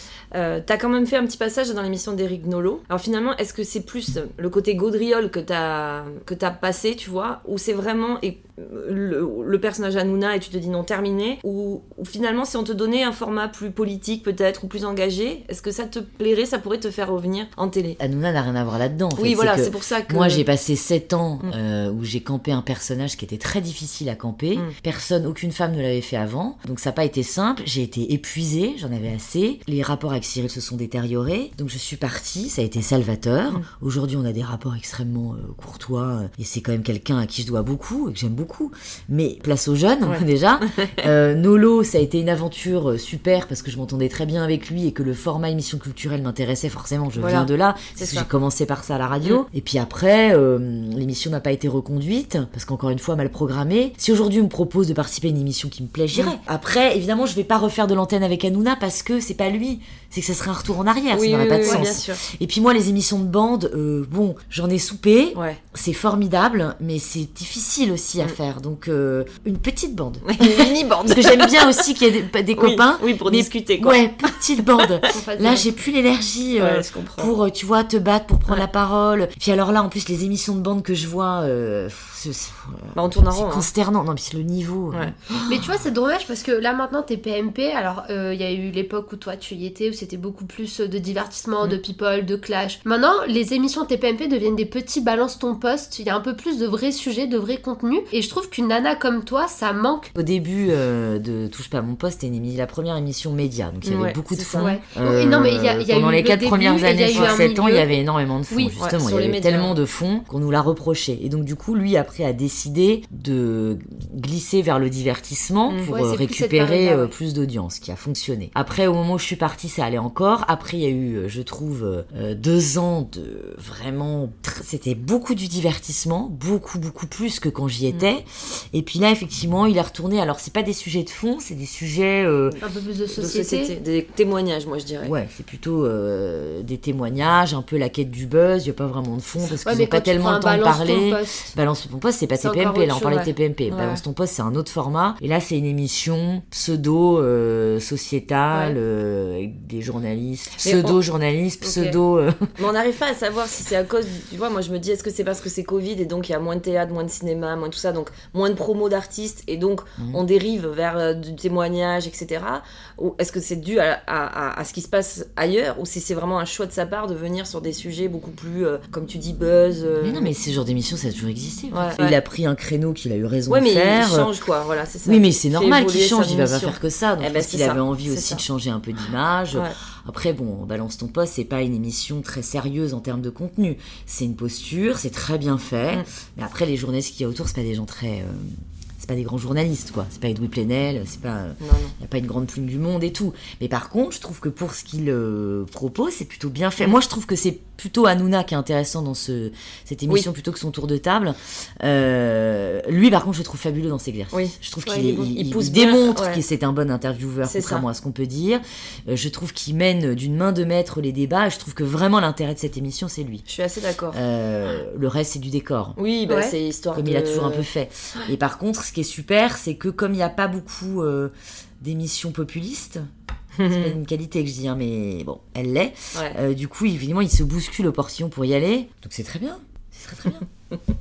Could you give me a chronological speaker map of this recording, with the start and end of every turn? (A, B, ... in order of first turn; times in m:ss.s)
0:00.3-0:18.0 A
0:18.0-1:25.7 B
0:19.2-0:20.4 A
0:47.2-0:48.3 A
1:01.1-1:02.2 A
1:05.4-1:05.6 A
1:10.2-1:11.8 A
1:12.6-1:14.9 A
1:15.1-1:15.7 C
1:16.6-1:17.3 A
1:23.0-1:23.7 A
1:25.5-1:40.1 C
1:40.2-2:12.6 B
1:43.8-1:44.8 A
1:44.6-1:48.0 C
1:47.1-1:47.4 A
1:48.8-1:49.8 A
1:55.8-1:57.1 C
2:12.6-2:13.8 C
2:13.1-2:15.1 A
2:15.0-2:32.5 B
2:19.6-2:21.5 C
2:22.4-2:23.3 C
2:23.7-2:24.0 A
2:30.6-2:31.0 A
2:31.6-2:32.0 C
2:32.6-2:50.3 A
2:50.0-2:54.3 B
2:51.7-2:52.2 A
2:53.5-2:58.4 A
2:55.0-3:33.5 B
3:11.6-3:12.0 A
3:24.3-3:26.4 A
3:27.4-3:27.8 A
3:33.5-3:34.2 A
3:34.1-3:36.0 B
3:36.0-3:37.7 A
3:36.3-3:36.5 C
3:36.9-3:43.1 B
3:43.6-3:43.9 A
3:43.6-3:50.5 B